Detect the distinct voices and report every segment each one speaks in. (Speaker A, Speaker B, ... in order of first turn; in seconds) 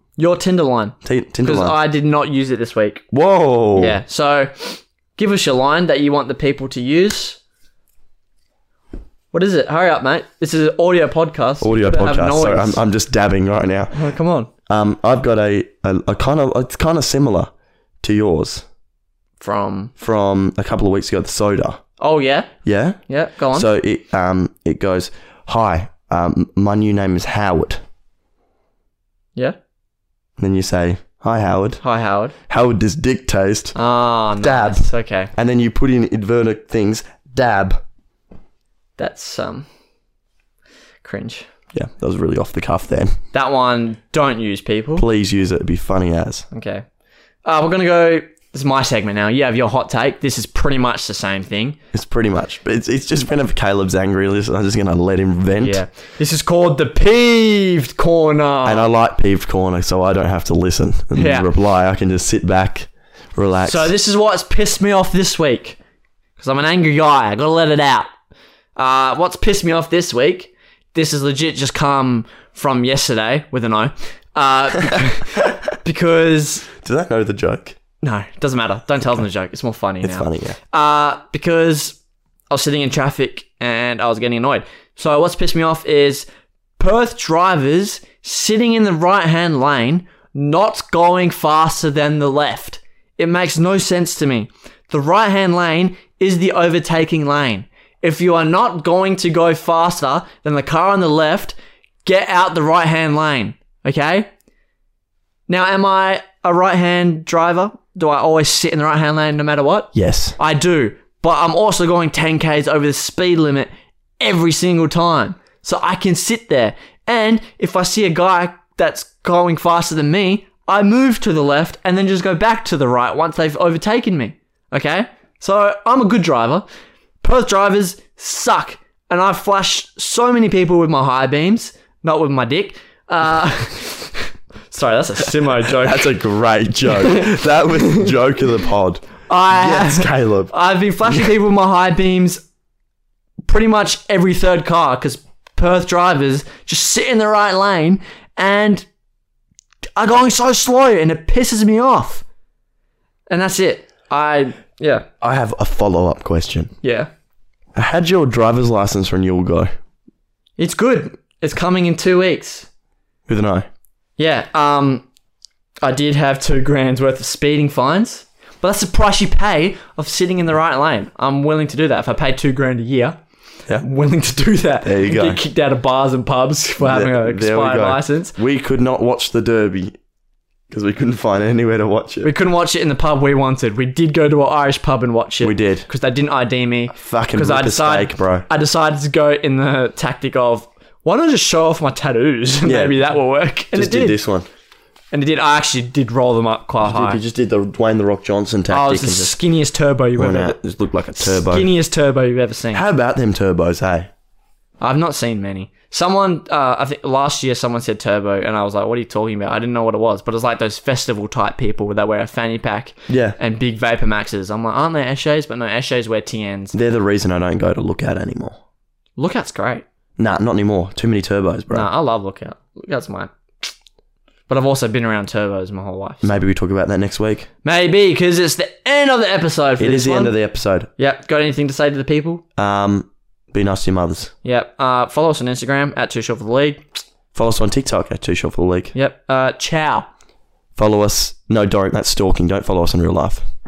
Speaker A: 0.2-3.0, 3.8-7.4, 9.3-12.8, 13.9-14.5, 19.4-19.9, 22.0-22.5, 23.1-23.7, 31.8-32.4, 33.8-35.3, 39.0-39.7, 41.0-41.5, 43.3-45.0, 46.5-46.8, 47.5-51.8, 55.6-58.9, 61.1-61.5, 63.7-65.8, 66.4-68.1, 68.8-76.7, 78.0-82.0, 82.5-86.3, 86.8-104.3, 105.5-126.7, 127.2-136.1, 136.9-138.1, 139.3-142.4, 143.4-148.9, 150.0-152.2, 153.3-155.1, 156.8-157.1, 160.6-162.7, 164.2-165.1, 165.8-173.2, 173.8-178.4, 182.2-194.2, 195.1-197.2, 198.7-200.6, 201.2-202.8, 204.8-216.8, 219.2-219.8, 221.7-223.7, 224.5-226.3, 227.6-230.3, 231.0-232.4, 234.4-236.8, 238.9-240.1
Speaker B: 1.0-1.8, 3.1-4.0, 11.6-14.0, 14.7-18.6, 20.0-21.8, 22.6-23.0, 23.5-27.8, 30.4-31.8, 32.5-33.8, 34.4-37.8, 41.7-43.2, 45.0-46.5, 51.9-55.8, 58.6-63.9, 76.8-77.8, 80.0-80.6, 109.9-110.4, 135.7-140.5, 141.1-141.3, 155.2-156.7, 157.8-159.7, 163.3-163.7, 174.8-175.4, 176.8-179.9, 180.7-182.3, 185.4-185.9, 186.9-188.5, 192.6-193.0, 193.7-194.5, 196.8-199.4, 200.2-201.7, 202.7-204.1, 213.1-213.4, 216.7-218.6, 220.2-221.9, 226.2-227.5, 229.8-230.9, 232.6-234.3, 237.3-238.9, 240.8-243.4